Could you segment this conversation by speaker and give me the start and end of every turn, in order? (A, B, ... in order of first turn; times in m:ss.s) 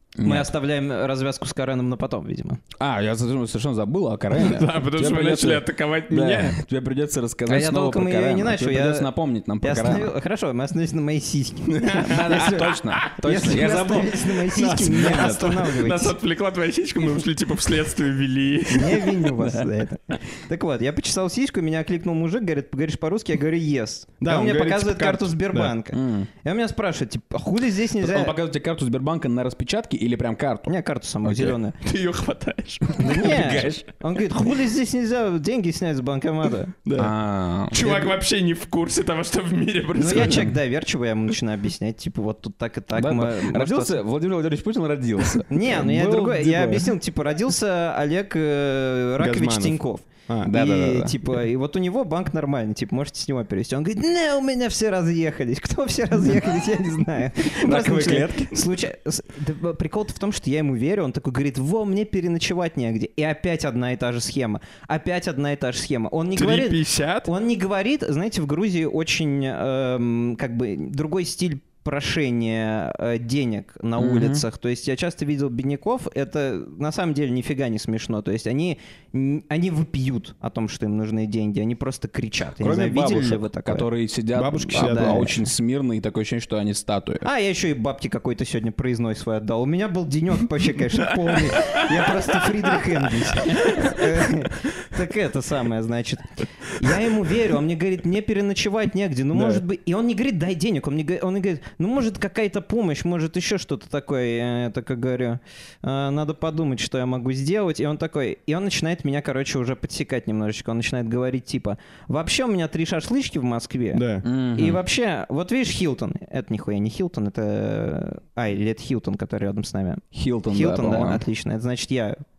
0:00.2-0:00.5 A
0:00.2-0:02.6 B
0:02.8-0:10.1 A
0:04.4-0:06.6 C
0:07.5-0:09.1 B
0:09.6-0:16.2 B
0:11.7-0:12.3 C
0:11.9-0:14.3 A
0:14.3-0:19.3 C
0:18.7-0:28.3 B
0:24.2-0:25.7 C
0:25.9-0:26.3 A
0:28.0-0:31.6 A
0:30.7-0:31.8 B
0:31.8-0:33.2 C
0:32.9-0:33.9 A
0:33.0-0:36.7 B
0:36.8-0:37.1 C
0:36.9-0:38.1 A
0:37.7-0:40.5 C
0:40.0-0:44.0 B
0:43.0-0:46.9 A
0:45.5-1:23.9 B
0:49.2-0:50.6 C
0:50.5-0:51.2 A
0:57.4-0:58.7 A
1:06.4-1:07.3 C
1:14.0-1:14.4 A
1:22.6-1:27.3 A
1:24.3-1:25.4 C
1:24.7-1:25.4 B
1:27.2-1:54.0 B
1:39.3-1:39.6 C
1:54.0-1:54.3 C
1:54.2-1:54.8 A
1:54.6-2:02.2 B
2:00.1-2:01.2 A